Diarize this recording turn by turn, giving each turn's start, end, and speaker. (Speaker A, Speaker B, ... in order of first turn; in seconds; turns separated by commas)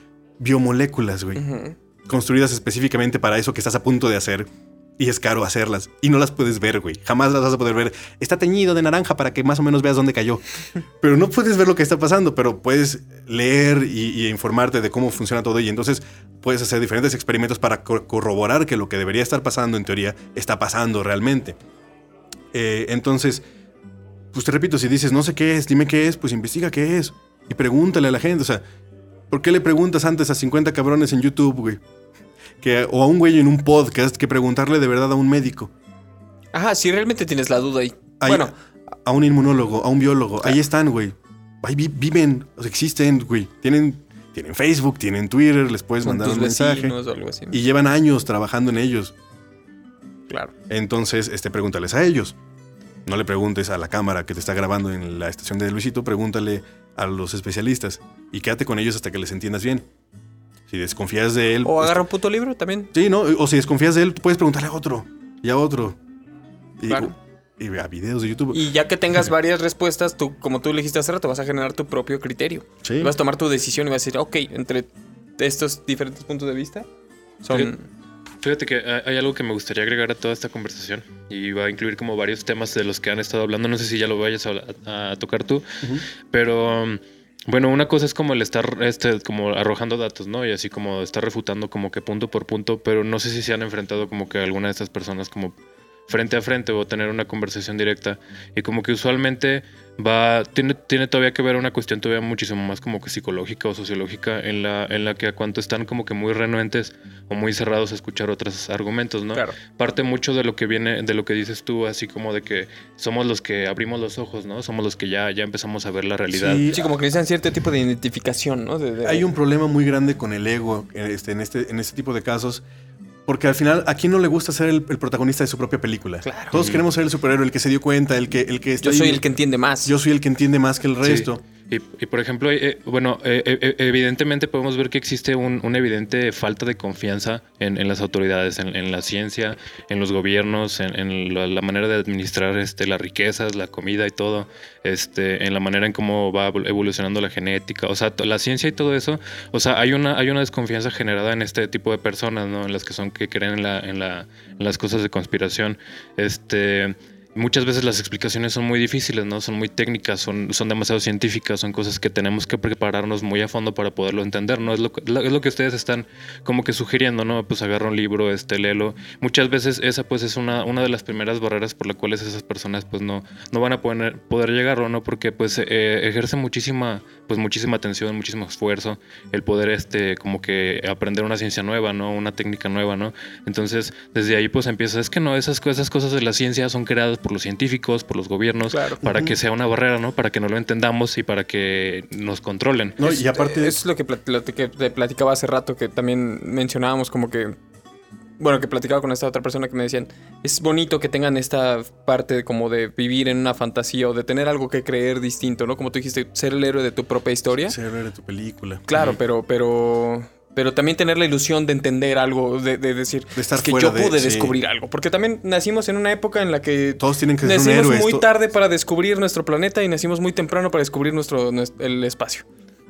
Speaker A: 0.4-1.4, Speaker B: 1.4-1.8, Speaker A: 2.1-10.4, Speaker A: 11.0-21.6, Speaker A: 22.5-23.4, Speaker A: 24.3-28.6, Speaker A: 29.3-31.8, Speaker A: 32.6-35.7, Speaker B: 36.5-38.5, Speaker A: 38.2-38.5, Speaker A: 39.0-47.0, Speaker B: 46.0-47.6, Speaker A: 47.5-49.1, Speaker A: 50.7-52.4, Speaker A: 53.1-59.9, Speaker A: 60.7-62.0, Speaker B: 61.6-62.9, Speaker A: 62.9-66.0, Speaker A: 66.8-68.6, Speaker B: 68.5-76.9, Speaker A: 72.8-73.1, Speaker B: 77.4-77.8, Speaker C: 78.4-95.5, Speaker C: 96.1-116.7, Speaker A: 116.3-116.9, Speaker B: 116.7-119.3, Speaker A: 119.0-122.6, Speaker A: 123.3-129.2, Speaker B: 126.2-126.6, Speaker C: 126.5-126.8, Speaker B: 128.8-129.9, Speaker A: 129.8-131.4, Speaker C: 131.0-193.0, Speaker B: 188.7-189.0, Speaker A: 189.0-189.4, Speaker A: 193.0-193.8, Speaker B: 193.0-197.6, Speaker B: 198.4-207.8, Speaker A: 207.7-208.8, Speaker B: 208.9-222.5, Speaker A: 213.4-214.6, Speaker A: 217.0-218.3